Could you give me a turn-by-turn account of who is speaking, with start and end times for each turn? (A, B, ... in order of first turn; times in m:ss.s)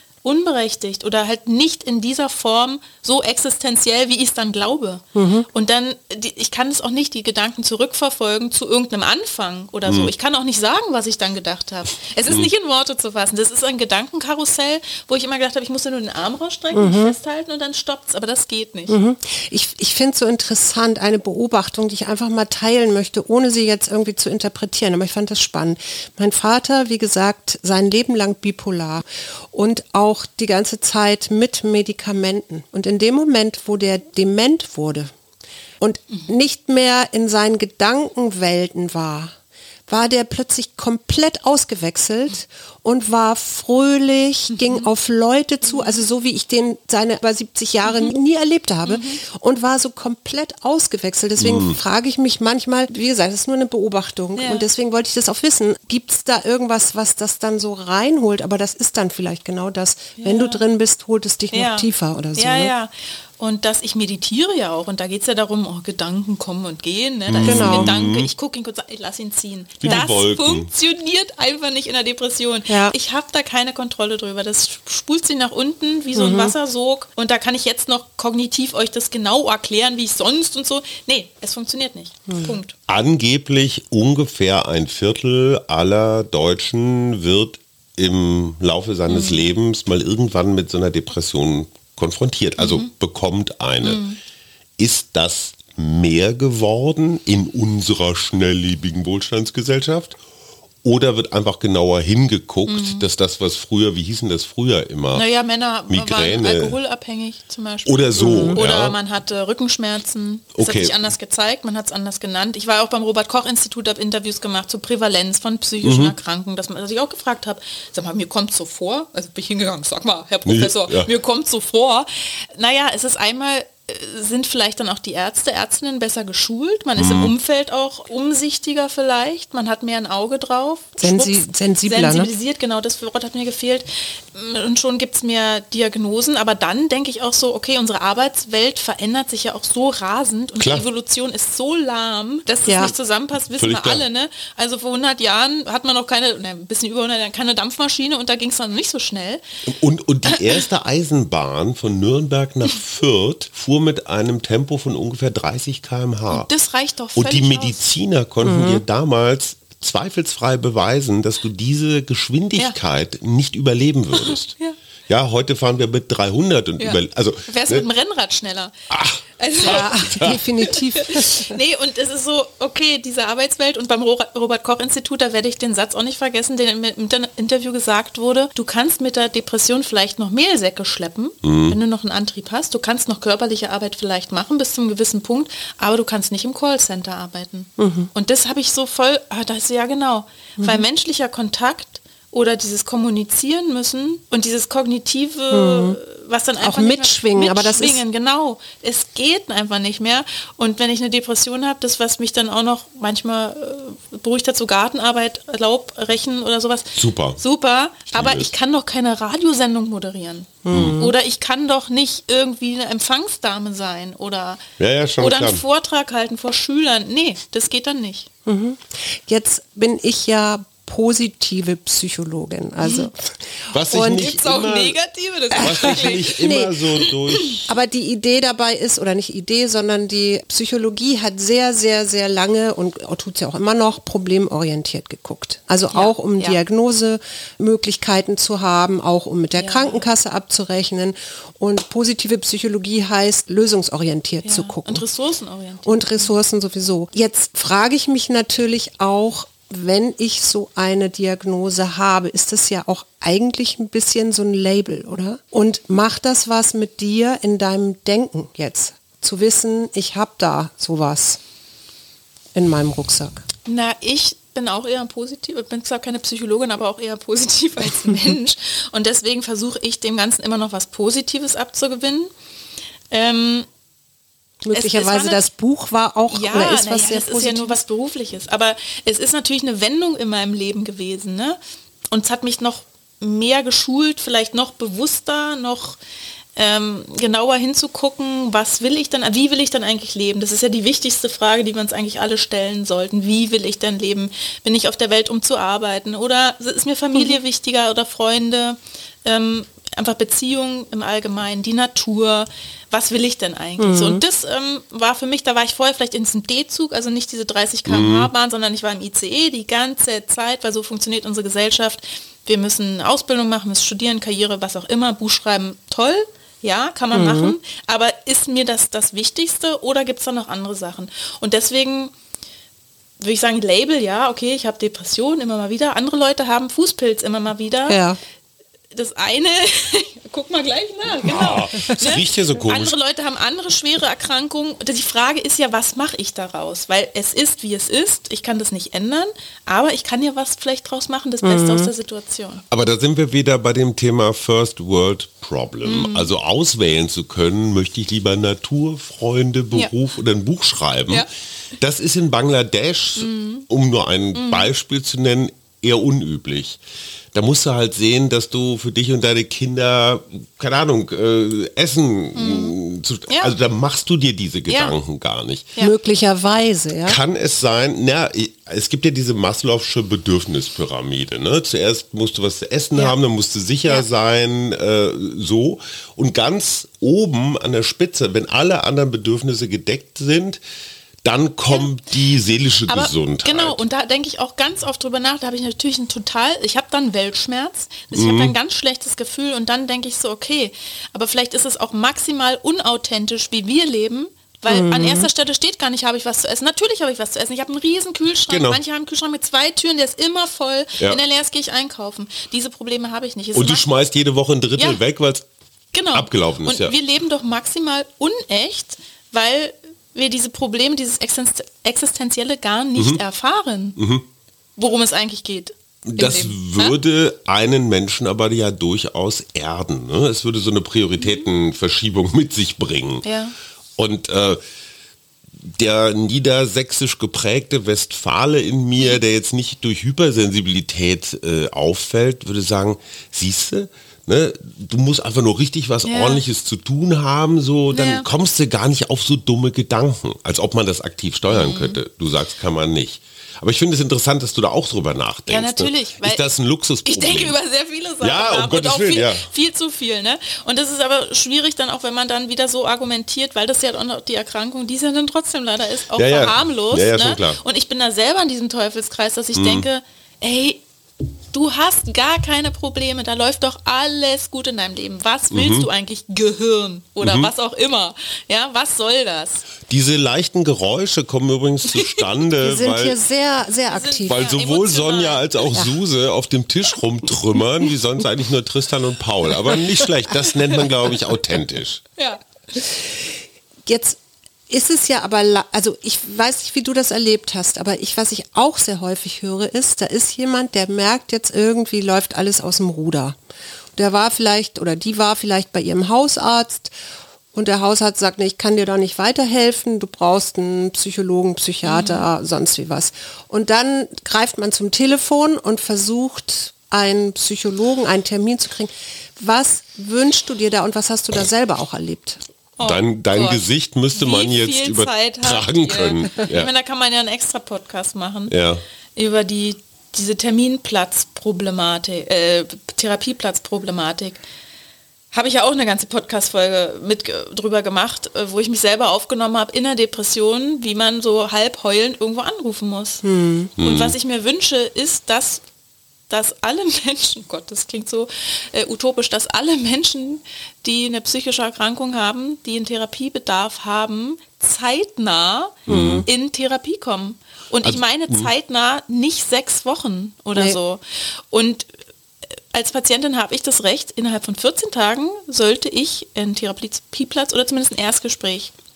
0:00.2-0:19.0 A
0:05.1-0:05.5 B
0:16.7-0:17.1 B
0:18.9-0:35.1 B
0:35.8-0:39.3 B
0:39.9-1:02.7 B
0:44.5-0:44.9 A
0:45.7-0:46.0 A
0:47.8-0:48.1 A
0:48.8-0:49.2 A
0:51.4-0:51.8 C
0:54.4-0:54.7 A
1:00.2-1:00.6 A
1:01.5-1:22.7 A
1:07.3-1:08.3 C
1:07.4-1:08.0 B
1:09.8-1:10.7 C
1:12.7-1:13.0 B
1:16.1-1:16.5 B
1:22.3-1:22.6 B
1:22.9-1:34.0 C
1:29.1-1:29.4 A
1:32.6-1:32.8 A
1:33.8-1:34.2 A
1:34.8-1:40.2 C
1:40.8-1:45.2 C
1:42.7-1:43.0 A
1:45.1-2:29.4 A
1:45.9-1:46.8 C
1:47.8-1:49.0 C
1:48.2-1:48.6 B
1:50.6-1:50.9 C
1:55.8-1:56.1 C
2:00.4-2:01.1 C
2:07.0-2:07.3 C
2:11.0-2:12.3 B
2:20.6-2:20.8 C
2:22.6-2:22.9 B
2:23.5-2:24.0 C
2:29.7-2:36.5 C
2:36.3-2:37.8 A
2:37.2-2:44.5 C
2:38.4-2:38.8 B
2:44.3-2:44.8 A
2:45.1-2:47.9 C
2:46.8-2:48.7 A
2:48.9-2:50.4 C
2:49.4-3:34.6 A
2:49.6-2:51.6 B
3:01.4-3:01.8 C
3:07.8-3:08.1 B
3:10.6-3:10.8 B
3:15.5-3:16.0 B
3:16.6-3:18.0 B
3:26.9-3:27.4 C
3:28.1-3:28.5 C
3:30.6-3:31.1 B
3:30.7-3:31.0 C
3:34.8-3:35.6 C
3:35.2-3:38.3 A
3:38.4-3:43.4 B
3:42.8-3:43.1 A
3:43.7-3:45.0 C
3:43.9-3:44.3 B
3:43.9-3:46.5 A
3:45.5-3:46.8 B
3:45.5-3:47.6 C
3:47.0-3:47.6 A
3:47.7-4:05.0 B
3:55.9-3:56.6 A
3:59.6-4:00.0 A
4:04.4-4:06.3 A
4:05.8-4:21.4 B
4:22.5-4:23.4 B
4:23.6-4:32.3 A
4:33.1-4:33.7 A
4:34.6-4:37.8 B
4:34.7-4:35.4 A
4:36.3-4:41.6 A
4:42.1-4:46.0 A
4:46.6-5:22.1 A
5:03.8-5:04.2 B
5:07.9-5:08.3 C
5:17.1-5:17.6 B
5:23.2-5:28.0 A
5:27.9-5:28.2 B
5:28.9-5:42.6 A
5:31.2-5:32.9 C
5:41.4-5:41.9 B
5:42.7-5:51.2 C
5:45.8-5:46.3 A
5:51.8-5:56.8 C
5:53.2-5:53.6 A
5:54.3-5:54.7 A
5:57.3-6:05.7 C
6:02.3-6:02.7 A
6:03.3-6:03.5 A
6:04.7-6:05.0 A
6:05.8-6:07.2 B
6:07.0-6:20.6 C
6:21.2-6:23.8 C
6:22.9-6:43.9 A
6:28.1-6:28.5 C
6:34.7-6:35.3 B
6:38.5-6:38.8 C
6:43.5-6:45.4 C
6:45.9-6:54.0 A
6:46.1-6:46.9 C
6:53.0-6:53.2 C
6:54.0-6:54.2 C
6:54.8-6:57.0 A
6:56.0-7:03.2 C
7:01.2-7:01.5 A
7:03.2-7:03.5 A
7:04.0-7:04.6 C
7:05.6-7:27.6 C
7:16.0-7:16.4 A
7:17.9-7:18.3 A
7:21.5-7:22.0 A
7:25.5-7:26.4 A
7:27.1-7:40.8 A
7:28.2-7:29.4 C
7:36.1-7:37.6 C
7:39.5-7:39.9 C
7:41.5-7:49.7 A
7:45.5-7:45.9 C
7:47.2-7:47.5 C
7:49.9-7:53.2 C
7:52.6-7:54.4 B
7:53.9-7:55.5 A
7:54.3-8:02.0 C
8:03.8-8:04.2 B
8:04.7-8:13.4 B
8:14.0-8:16.9 B
8:17.5-8:32.4 B
8:21.8-8:22.3 A
8:32.8-8:33.6 A
8:32.8-8:36.7 C
8:34.1-8:38.5 A
8:38.5-8:38.8 C
8:39.2-8:44.4 A
8:45.3-8:53.2 A
8:53.2-8:53.7 B
8:53.8-8:54.1 C
8:53.8-8:55.6 A
8:56.3-9:11.9 A
9:05.9-9:06.2 C
9:05.9-9:06.3 B
9:07.8-9:08.5 C
9:12.7-9:18.7 A